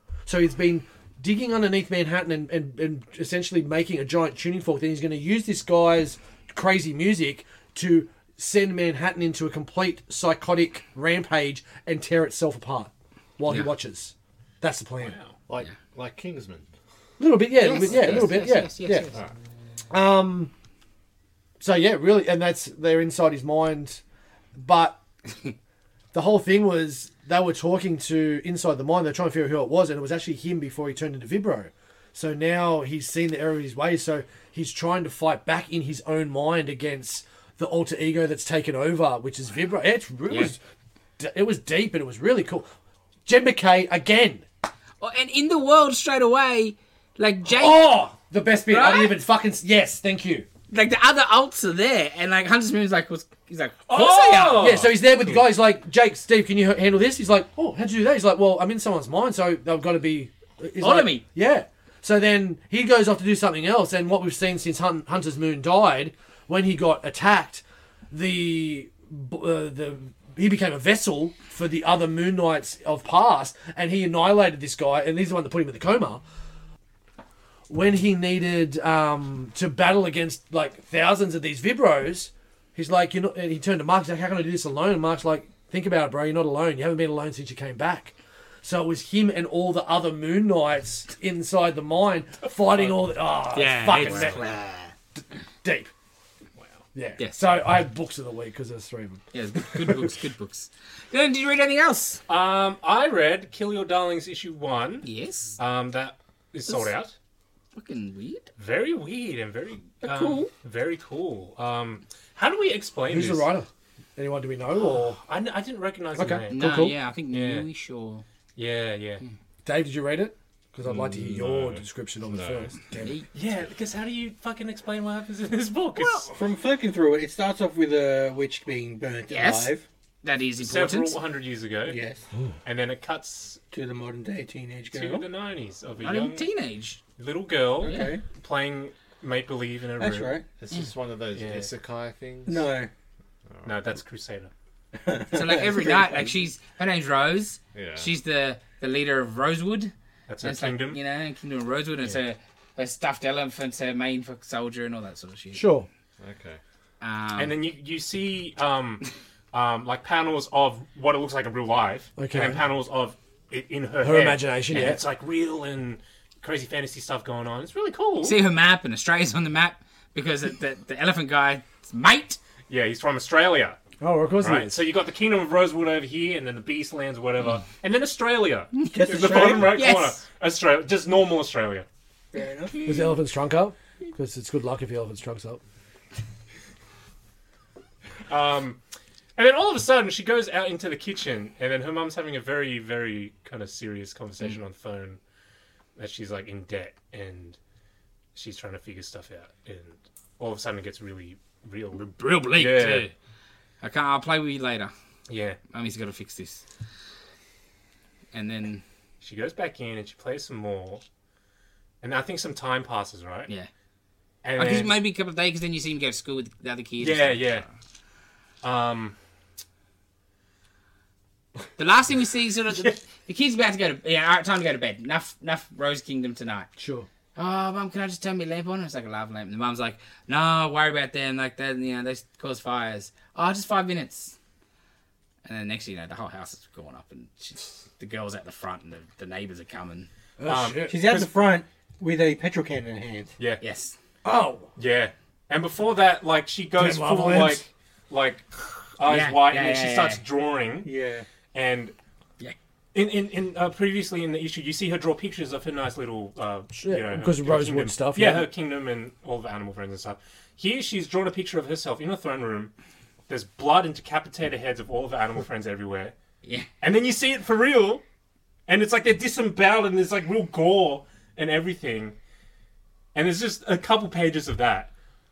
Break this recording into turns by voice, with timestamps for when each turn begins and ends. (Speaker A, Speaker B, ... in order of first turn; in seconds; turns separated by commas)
Speaker A: 0.3-15.2, Speaker B: 15.0-15.3, Speaker C: 15.5-16.7, Speaker A: 17.2-19.1, Speaker D: 17.6-19.2, Speaker A: 19.9-20.5, Speaker A: 21.6-24.0, Speaker A: 24.6-25.0, Speaker A: 26.1-40.6, Speaker A: 41.2-42.7, Speaker A: 43.3-44.5, Speaker D: 45.0-48.0, Speaker A: 47.5-50.5, Speaker D: 48.7-49.2, Speaker D: 50.7-54.8, Speaker B: 53.9-54.9, Speaker A: 54.6-76.2, Speaker D: 60.8-61.2, Speaker A: 77.7-94.5, Speaker D: 93.5-94.9, Speaker B: 93.9-94.4, Speaker A: 95.6-95.9, Speaker B: 96.6-96.8, Speaker A: 96.9-100.1, Speaker D: 97.2-97.4, Speaker D: 99.3-102.2, Speaker B: 102.3-107.1, Speaker D: 105.0-105.6, Speaker D: 107.8-108.5, Speaker B: 108.6-113.5, Speaker D: 110.0-110.5, Speaker A: 113.1-115.2, Speaker B: 115.2-116.8, Speaker A: 116.2-117.0, Speaker D: 116.5-118.2, Speaker B: 117.3-117.7, Speaker B: 118.6-119.2, Speaker A: 119.7-123.2, Speaker C: 120.8-122.7, Speaker B: 123.3-126.3, Speaker D: 126.0-126.3, Speaker E: 126.3-129.8, Speaker D: 129.3-129.7, Speaker D: 130.2-131.2, Speaker B: 130.6-132.0, Speaker E: 131.9-132.2, Speaker B: 132.7-133.6, Speaker E: 133.7-135.2, Speaker B: 134.9-136.5, Speaker D: 136.0-137.0, Speaker B: 137.2-140.3, Speaker D: 137.8-138.2, Speaker E: 137.8-138.2, Speaker E: 140.0-140.5, Speaker C: 140.6-142.7, Speaker B: 141.3-141.7, Speaker E: 142.5-142.9, Speaker B: 143.7-144.5, Speaker E: 145.0-146.3, Speaker D: 145.3-155.7, Speaker C: 147.8-148.1, Speaker B: 150.3-151.0, Speaker A: 155.5-155.9, Speaker C: 156.2-156.6, Speaker D: 157.0-157.6, Speaker B: 157.4-168.4, Speaker A: 162.2-162.6, Speaker A: 164.0-165.0, Speaker D: 164.7-165.0, Speaker D: 168.2-172.4, Speaker B: 172.7-173.8, Speaker A: 174.0-174.8, Speaker B: 174.4-181.9, Speaker D: 178.8-180.2, Speaker E: 178.8-179.8, Speaker E: 182.3-182.9, Speaker A: 182.8-185.6, Speaker B: 188.3-188.8, Speaker B: 189.4-195.2, Speaker B: 196.0-197.6, Speaker B: 198.3-203.1, Speaker D: 202.0-203.1, Speaker D: 203.8-204.9, Speaker B: 205.3-205.6, Speaker D: 205.7-206.6, Speaker D: 208.3-208.8, Speaker B: 209.2-211.0, Speaker B: 212.0-213.5, Speaker B: 214.4-215.0, Speaker D: 214.6-217.7, Speaker B: 217.0-217.7, Speaker B: 218.6-219.2, Speaker D: 221.8-226.7, Speaker A: 226.8-227.1, Speaker D: 227.4-234.4, Speaker D: 235.4-240.1, Speaker A: 240.4-241.0, Speaker B: 240.5-241.3, Speaker E: 240.9-243.3, Speaker D: 243.6-243.9, Speaker A: 244.2-244.7, Speaker B: 244.8-250.9, Speaker A: 246.8-247.6, Speaker D: 249.0-250.2, Speaker E: 250.8-251.3, Speaker B: 251.5-251.9, Speaker B: 252.9-262.7, Speaker A: 256.8-258.5, Speaker B: 263.3-266.1, Speaker B: 266.8-268.0, Speaker B: 268.7-272.2, Speaker B: 273.1-274.9